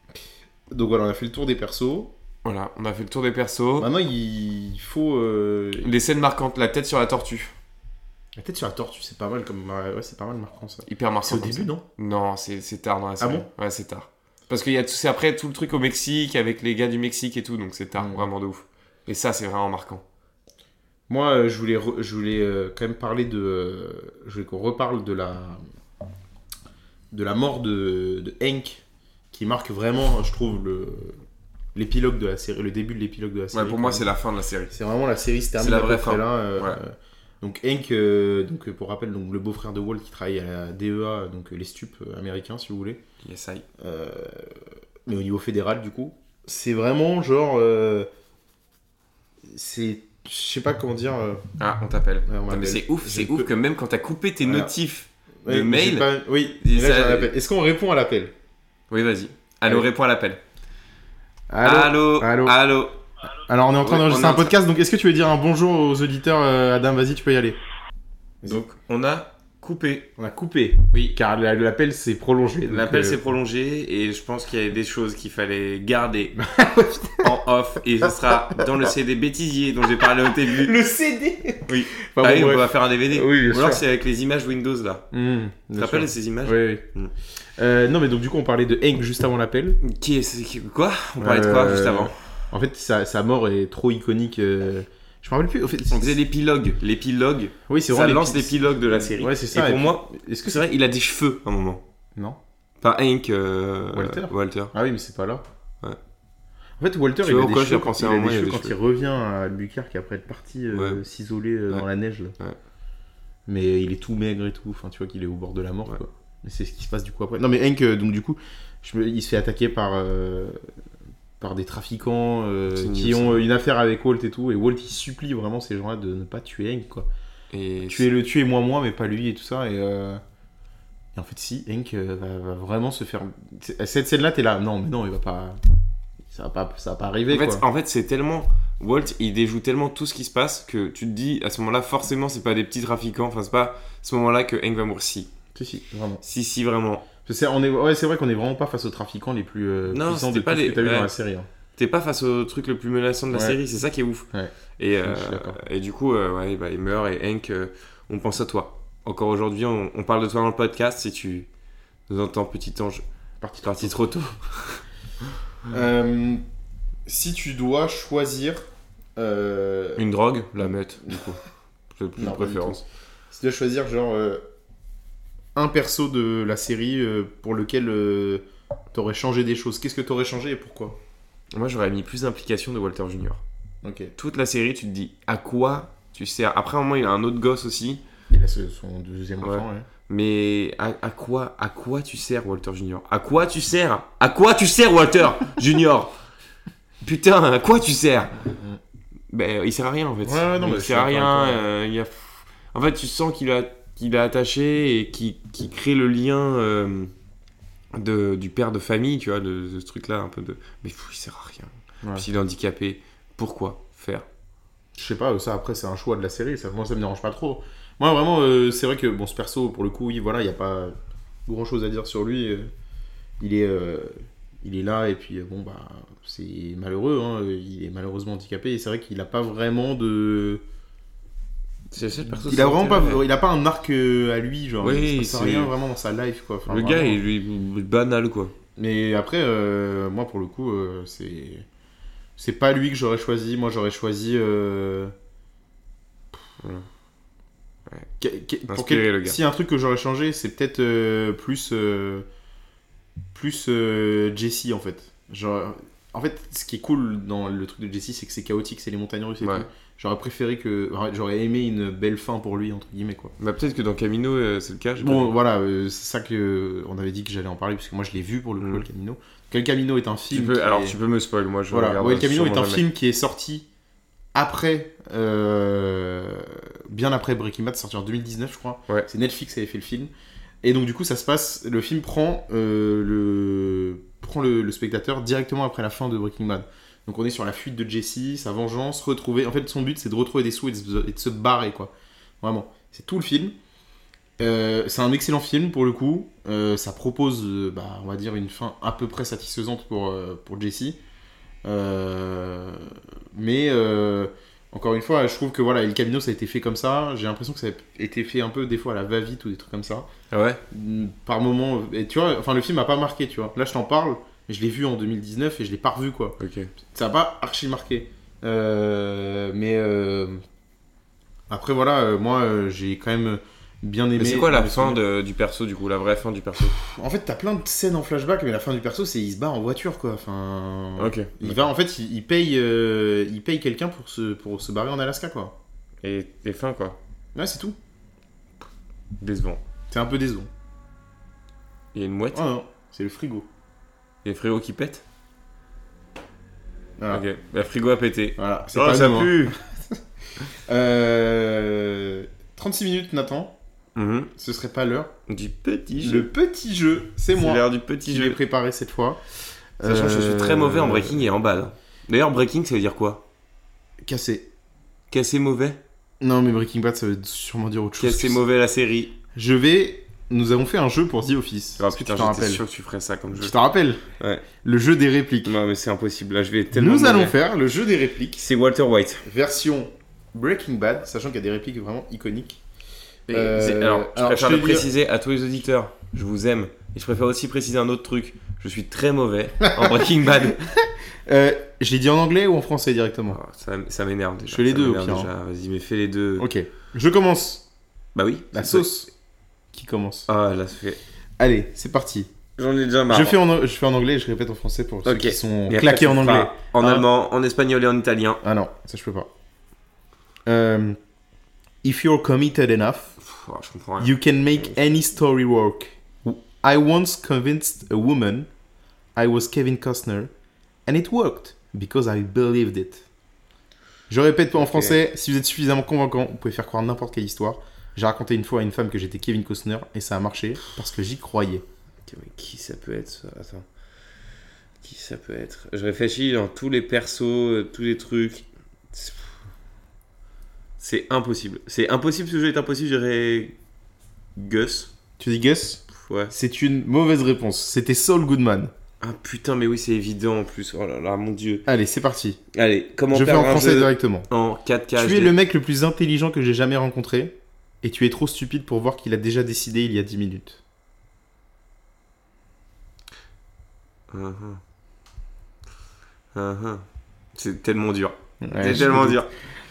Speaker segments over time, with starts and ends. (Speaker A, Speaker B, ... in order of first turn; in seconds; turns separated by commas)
Speaker A: 0.7-2.1, Speaker B: 2.4-3.9, Speaker A: 3.8-5.9, Speaker B: 5.8-7.5, Speaker A: 8.4-11.8, Speaker B: 10.9-20.0, Speaker A: 13.2-13.5, Speaker A: 18.0-18.2, Speaker A: 21.1-25.6, Speaker A: 27.1-31.2, Speaker A: 31.8-34.1, Speaker B: 33.5-34.8, Speaker A: 34.7-43.0, Speaker B: 35.6-36.8, Speaker B: 43.2-43.6, Speaker A: 43.8-48.1, Speaker A: 49.5-51.4, Speaker B: 51.6-56.1, Speaker A: 52.3-53.5, Speaker A: 54.4-54.7, Speaker A: 55.4-58.3, Speaker B: 56.6-57.3, Speaker B: 58.9-60.4, Speaker A: 61.5-62.6, Speaker B: 61.6-63.0, Speaker A: 63.5-67.6, Speaker B: 63.8-64.6, Speaker B: 68.5-70.1, Speaker A: 70.2-73.2, Speaker B: 72.7-76.4, Speaker A: 76.4-77.3, Speaker B: 77.2-80.8, Speaker A: 78.0-78.9, Speaker A: 80.0-83.8, Speaker B: 81.7-85.1, Speaker A: 85.1-86.8, Speaker B: 85.8-87.1, Speaker A: 87.6-89.8, Speaker B: 89.8-92.1, Speaker A: 91.2-96.2, Speaker B: 95.9-101.8, Speaker A: 97.7-100.7, Speaker B: 102.8-104.7, Speaker A: 103.9-105.4, Speaker A: 106.8-112.3, Speaker B: 107.2-108.8, Speaker B: 110.7-111.0, Speaker A: 113.5-120.6, Speaker A: 121.4-127.1, Speaker B: 122.7-123.5, Speaker B: 127.5-128.1, Speaker A: 127.8-130.2, Speaker A: 131.1-135.6, Speaker A: 136.3-137.7, Speaker B: 137.3-145.3, Speaker A: 145.6-146.2, Speaker B: 146.2-147.1, Speaker A: 147.2-151.5, Speaker B: 149.9-151.1, Speaker B: 151.8-154.3, Speaker A: 153.3-153.6, Speaker A: 154.3-155.6, Speaker B: 154.8-161.5, Speaker B: 162.1-163.0, Speaker A: 163.4-164.0, Speaker B: 163.6-164.8, Speaker A: 165.7-166.4, Speaker A: 167.1-170.0, Speaker B: 170.0-172.8, Speaker A: 172.2-174.4, Speaker A: 175.6-181.0, Speaker B: 181.5-183.4, Speaker A: 183.8-184.1, Speaker B: 184.2-188.0, Speaker A: 188.3-189.9, Speaker B: 189.4-196.1, Speaker B: 197.0-198.4, Speaker A: 198.5-198.8, Speaker B: 199.3-207.1, Speaker A: 200.2-201.6, Speaker B: 207.9-214.3, Speaker A: 212.0-212.3, Speaker A: 214.9-220.9, Speaker A: 221.5-222.7, Speaker A: 223.4-230.6, Speaker B: 231.9-233.2, Speaker A: 232.3-237.2, Speaker B: 234.8-235.7, Speaker B: 236.7-238.5, Speaker A: 238.8-241.7, Speaker A: 242.4-245.1, Speaker B: 246.6-246.9, Speaker A: 248.2-252.3, Speaker B: 248.7-249.4, Speaker A: 253.3-263.3, Speaker B: 259.4-259.7, Speaker B: 263.4-265.3, Speaker A: 265.0-271.0, Speaker B: 268.6-268.9, Speaker B: 270.3-272.8, Speaker A: 271.7-273.7, Speaker A: 274.3-280.1, Speaker A: 280.6-293.6, Speaker A: 294.4-301.0, Speaker A: 301.6-310.1, Speaker B: 310.3-310.6, Speaker A: 310.7-320.4, Speaker B: 316.4-316.7, Speaker A: 321.5-325.0, Speaker B: 324.2-326.8, Speaker A: 326.6-335.6, Speaker B: 331.0-331.6, Speaker B: 336.0-337.0, Speaker A: 337.4-337.8, Speaker B: 339.2-339.6, Speaker A: 339.9-340.5, Speaker B: 341.9-342.5, Speaker A: 342.3-343.5, Speaker B: 344.2-345.0, Speaker A: 347.0-347.2, Speaker B: 347.1-349.6, Speaker A: 348.4-353.6, Speaker B: 353.9-354.3, Speaker A: 354.4-355.1, Speaker B: 355.3-356.3, Speaker A: 356.0-359.2, Speaker B: 357.3-358.4, Speaker A: 359.8-361.2, Speaker B: 359.8-363.2, Speaker A: 364.0-364.5, Speaker B: 365.1-365.8, Speaker A: 366.2-368.4, Speaker B: 368.0-369.2, Speaker A: 369.4-372.6, Speaker B: 371.8-373.6, Speaker A: 373.4-374.0, Speaker B: 374.2-374.4, Speaker A: 374.6-375.6, Speaker B: 375.4-377.4, Speaker A: 376.7-378.5, Speaker B: 378.4-379.2, Speaker A: 379.2-382.6, Speaker A: 383.3-384.9, Speaker B: 383.3-390.7, Speaker A: 389.6-393.4, Speaker B: 393.3-396.5, Speaker A: 394.5-395.3, Speaker A: 396.4-397.7, Speaker B: 398.1-398.9, Speaker A: 398.5-399.1, Speaker A: 399.7-400.3, Speaker B: 400.3-401.0, Speaker A: 401.4-402.3, Speaker B: 402.6-403.4, Speaker A: 403.1-407.1, Speaker B: 405.1-408.4, Speaker A: 408.4-409.3, Speaker A: 410.5-411.0, Speaker A: 411.8-413.2, Speaker B: 413.2-414.8, Speaker A: 414.0-418.5, Speaker A: 419.1-420.3, Speaker A: 420.9-423.1, Speaker A: 424.1-431.7, Speaker B: 424.6-425.0, Speaker B: 432.1-433.6, Speaker B: 434.8-439.3, Speaker B: 440.8-443.6, Speaker B: 444.4-444.9, Speaker A: 445.2-448.7, Speaker B: 445.9-446.3, Speaker B: 449.0-451.7, Speaker A: 451.7-452.4, Speaker B: 452.5-455.3, Speaker A: 453.1-454.3, Speaker A: 454.9-460.6, Speaker B: 464.1-464.6, Speaker B: 466.3-469.3, Speaker A: 468.4-469.2